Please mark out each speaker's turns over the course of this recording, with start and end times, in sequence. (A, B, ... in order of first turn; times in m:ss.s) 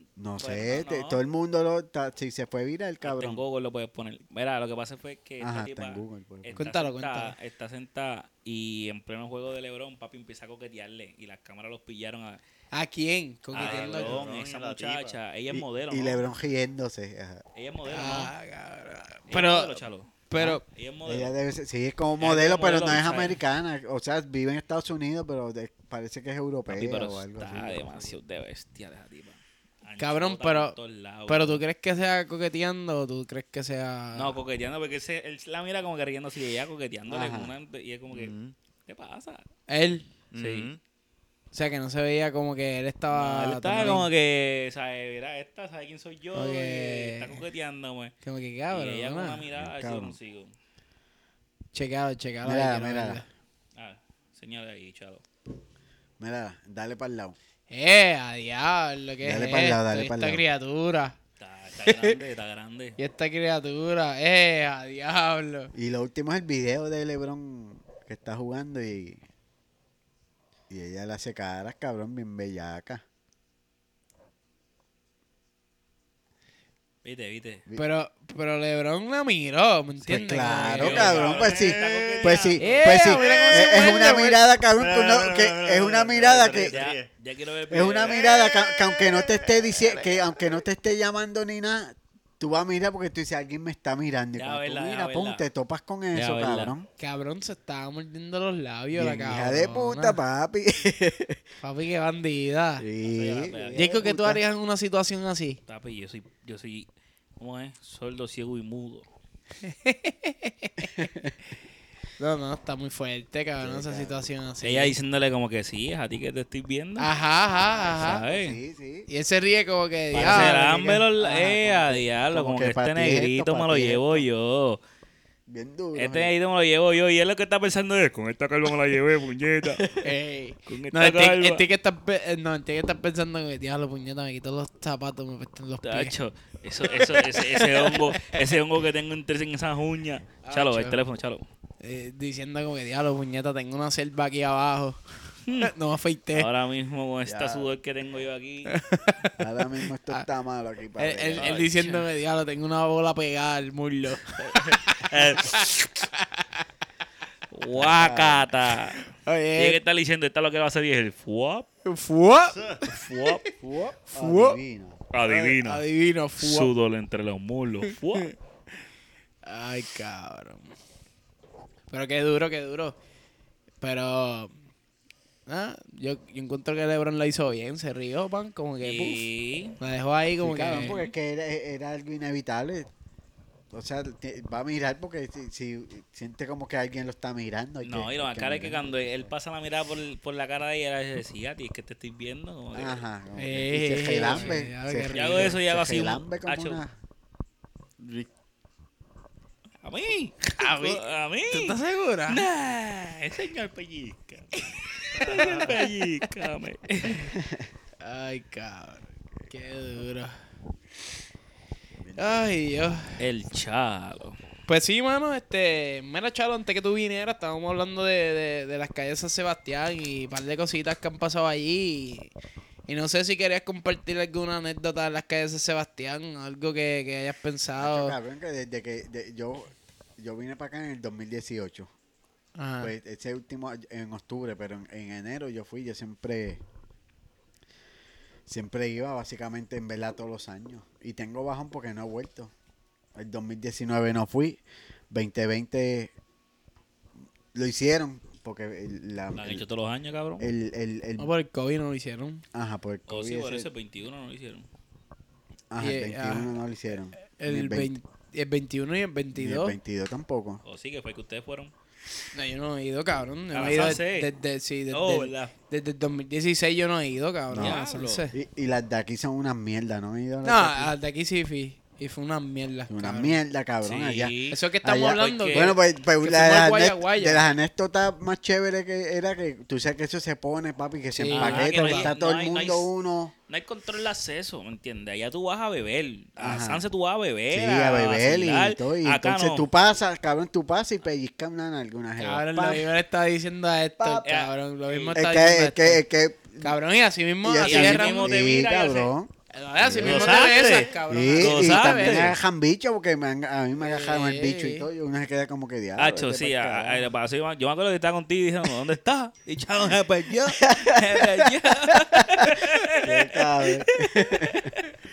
0:00.2-0:03.4 A
0:00.4-0:01.2 B
0:03.0-0:12.4 B
0:05.4-0:06.6 A
0:06.6-0:07.3 C
0:12.7-0:14.2 C
0:13.5-0:16.2 B
0:13.5-0:15.2 D
0:15.5-0:17.4 A
0:17.5-0:18.3 B
0:17.9-0:20.6 C
0:19.3-0:21.3 B
0:20.4-0:28.2 A
0:22.2-0:23.4 B
0:26.7-0:31.6 B
0:30.0-0:30.8 C
0:31.3-0:34.3 C
0:34.1-0:38.3 B
0:37.1-0:37.5 A
0:38.1-0:38.5 D
0:38.9-0:39.5 B
0:39.7-0:40.1 C
0:40.3-0:40.8 D
0:40.4-0:40.7 B
0:41.5-0:44.1 C
0:43.1-0:48.1 B
0:46.3-0:47.4 C
0:48.2-0:49.4 C
0:48.7-0:50.5 B
0:49.6-0:50.2 A
0:51.7-0:53.2 C
0:52.4-0:53.2 A
0:53.8-0:55.2 B
0:56.2-0:57.4 A
0:57.7-1:01.2 C
0:59.2-1:00.4 A
1:01.4-1:03.0 B
1:01.8-1:02.2 C
1:03.0-1:05.7 C
1:05.7-1:09.2 A
1:10.7-1:13.0 A
1:17.0-1:17.6 B
1:17.8-1:21.2 C
1:20.1-1:26.8 A
1:20.7-1:24.2 B
1:20.9-1:22.5 D
1:22.6-1:24.4 C
1:24.7-1:27.1 D
1:26.6-1:28.5 B
1:27.7-1:36.9 A
1:28.1-1:30.1 D
1:34.3-1:35.5 B
1:36.1-1:36.7 B
1:37.0-1:40.2 C
1:38.9-1:41.4 A
1:41.6-1:42.8 C
1:42.8-1:44.4 A
1:43.0-1:44.0 B
1:43.7-1:45.6 C
1:45.7-1:46.9 B
1:47.4-1:49.0 B
1:49.6-1:51.1 C
1:50.8-1:51.3 A
1:52.2-1:55.0 C
1:53.6-1:54.3 A
1:54.6-1:57.1 B
1:57.0-1:58.2 C
1:57.5-1:59.1 A
1:58.0-1:58.6 B
1:59.1-2:00.7 C
2:00.1-2:04.2 A
2:00.1-2:04.8 B
2:05.5-2:06.3 A
2:05.9-2:09.9 B
2:10.0-2:16.1 C
2:10.7-2:11.6 B
2:15.8-2:21.5 B
2:16.9-2:18.4 C
2:20.4-2:21.0 C
2:21.8-2:25.0 C
2:25.4-2:25.7 B
2:25.6-2:26.5 C
2:26.3-2:28.8 B
2:27.2-2:27.7 A
2:28.7-2:29.3 C
2:29.4-2:31.5 A
2:31.0-2:36.6 C
2:31.4-2:32.0 B
2:34.4-2:35.8 B
2:37.5-2:41.7 B
2:37.7-2:38.5 A
2:39.1-2:39.8 C
2:41.8-2:43.3 C
2:42.5-2:42.8 D
2:42.9-2:43.4 B
2:43.6-2:45.1 A
2:44.1-2:44.6 C
2:45.1-2:45.8 B
2:45.2-2:46.7 C
2:46.4-2:48.3 B
2:49.4-2:50.7 C
2:51.9-2:53.0 C
2:53.8-2:54.5 C
2:55.5-3:01.0 C
2:58.8-2:59.8 B
3:00.4-3:02.9 A
3:03.7-3:09.2 A
3:07.8-3:13.0 B
3:12.7-3:16.9 A
3:13.4-3:15.6 C
3:14.2-3:14.6 B
3:15.1-3:16.8 B
3:18.0-3:18.3 D
3:19.8-3:27.3 B
3:20.6-3:22.4 C
3:25.0-3:25.8 C
3:27.4-3:27.6 A
3:28.0-3:30.3 C
3:32.0-3:32.5 A
3:32.2-3:33.2 C
3:33.2-3:34.4 B
3:34.7-3:42.3 C
3:42.9-3:48.2 C
3:47.8-3:51.9 A
3:52.6-3:52.9 C
3:52.8-3:56.6 A
3:58.4-4:02.5 A
4:03.2-4:04.6 A
4:05.1-4:06.1 A
4:07.5-4:09.6 A
4:09.3-4:10.5 B
4:10.4-4:11.3 A
4:11.2-4:12.4 C
4:12.5-4:13.7 A
4:13.1-4:14.6 B
4:15.7-4:17.9 A
4:15.8-4:16.6 C
4:17.4-4:19.8 C
4:19.3-4:20.6 A
4:20.6-4:21.7 B
4:22.3-4:28.3 C
4:23.5-4:24.3 B
4:24.9-4:25.5 B
4:27.5-4:27.8 A
4:27.5-4:28.2 B
4:28.3-4:30.9 A
4:30.4-4:33.4 C
4:32.9-4:43.3 A
4:33.8-4:34.6 B
4:34.5-4:37.4 C
4:35.2-4:35.8 B
4:41.1-4:42.1 C
4:41.3-4:42.9 B
4:43.5-4:49.7 B
4:46.4-4:46.8 A
4:47.5-4:52.9 A
4:52.2-4:56.0 C
4:54.2-4:55.2 B
4:55.1-4:56.8 A
4:56.6-4:58.4 C
4:57.4-5:00.4 A
4:57.6-4:59.1 B
4:59.5-5:02.3 C
4:59.9-5:02.4 B
5:00.2-5:00.8 D
5:01.1-5:07.1 A
5:03.8-5:04.8 C
5:06.0-5:14.8 B
5:10.5-5:14.7 A